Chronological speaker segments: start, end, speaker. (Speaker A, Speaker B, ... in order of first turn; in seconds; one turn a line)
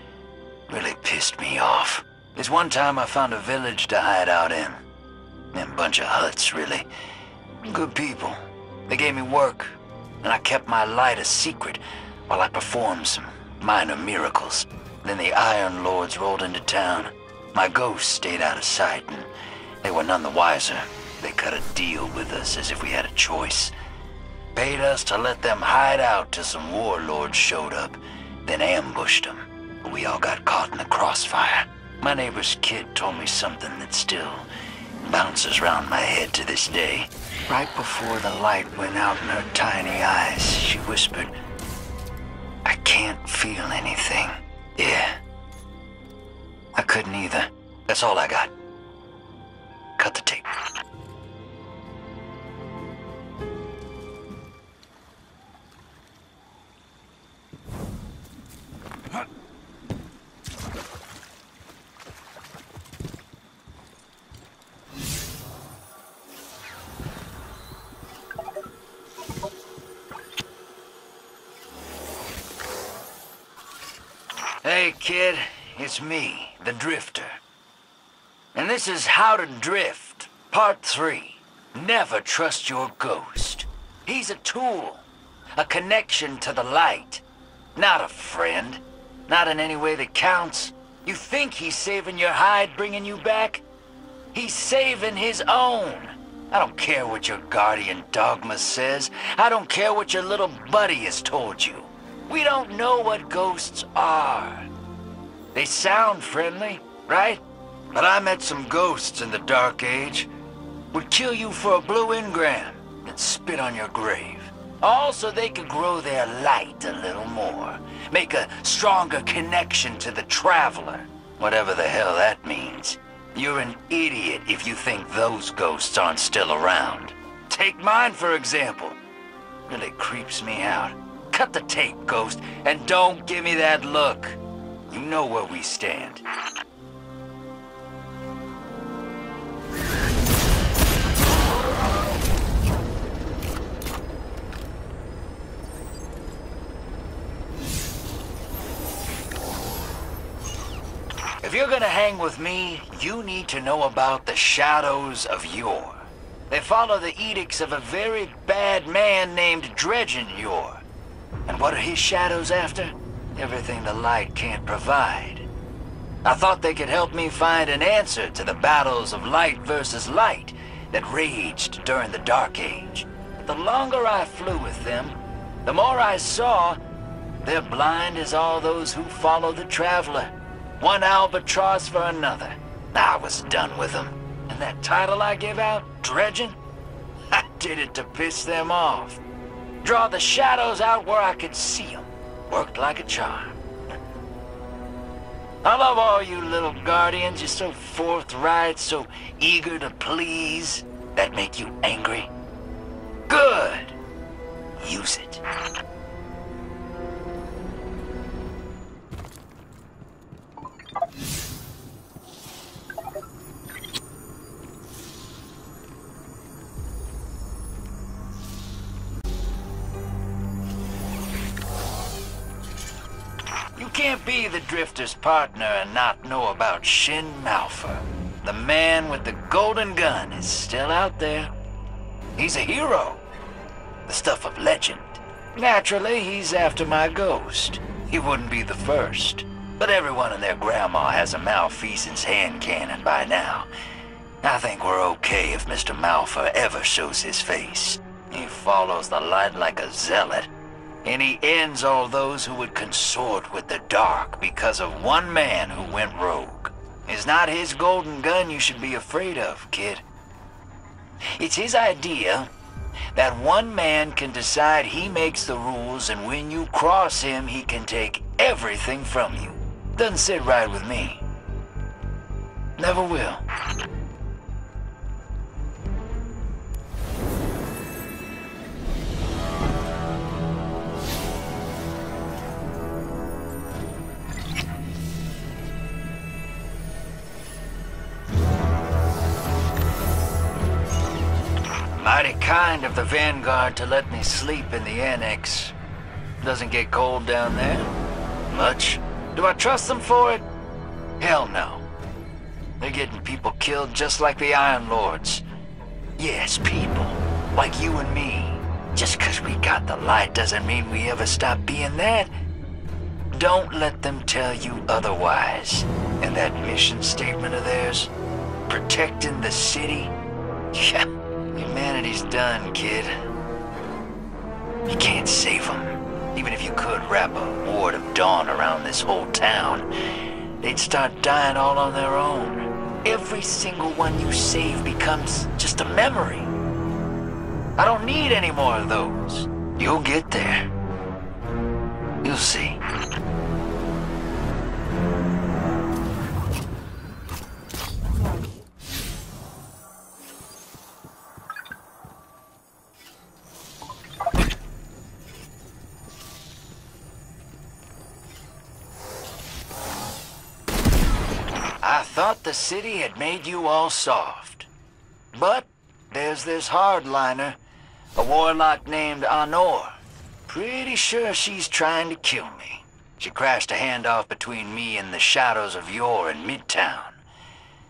Speaker A: 0.7-4.8
Speaker A: 5.5-6.9
Speaker A: 7.6-19.3
Speaker A: 19.8-23.7
Speaker A: 24.5-34.5
Speaker A: 35.0-41.3
Speaker A: 42.6-45.2
Speaker A: 46.7-48.5
Speaker A: 50.0-50.5
Speaker A: 74.6-77.4
Speaker A: 78.5-85.0
Speaker A: 85.5-87.2
Speaker A: 87.8-93.6
Speaker A: 94.3-104.7
Speaker A: 105.5-110.3
Speaker A: 110.9-129.0
Speaker A: 129.7-136.2
Speaker A: 151.4-160.8
Speaker A: 161.4-165.5
Speaker A: 166.2-176.8
Speaker A: 177.4-186.6
Speaker A: 187.3-189.2
Speaker A: 189.8-193.6
Speaker A: 195.6-202.3
Speaker A: 203.3-203.9
Speaker A: 204.8-205.4
Speaker A: 223.7-231.5
Speaker A: 232.3-233.2
Speaker A: 234.1-243.7
Speaker A: 244.4-250.5
Speaker A: 251.0-260.0
Speaker A: 261.3-262.5
Speaker A: 263.1-271.2
Speaker A: 272.8-273.4
Speaker A: 291.9-295.7
Speaker A: 296.4-297.9
Speaker A: 298.5-300.5
Speaker A: 301.2-301.8
Speaker A: 302.8-305.4
Speaker A: 306.2-312.3
Speaker A: 313.3-318.1
Speaker A: 318.7-320.1
Speaker A: 320.7-323.1
Speaker A: 324.8-329.9
Speaker A: 330.6-336.5
Speaker A: 337.8-340.7
Speaker A: 342.2-342.8
Speaker A: 361.8-364.7
Speaker A: 365.3-367.6
Speaker A: 368.1-377.2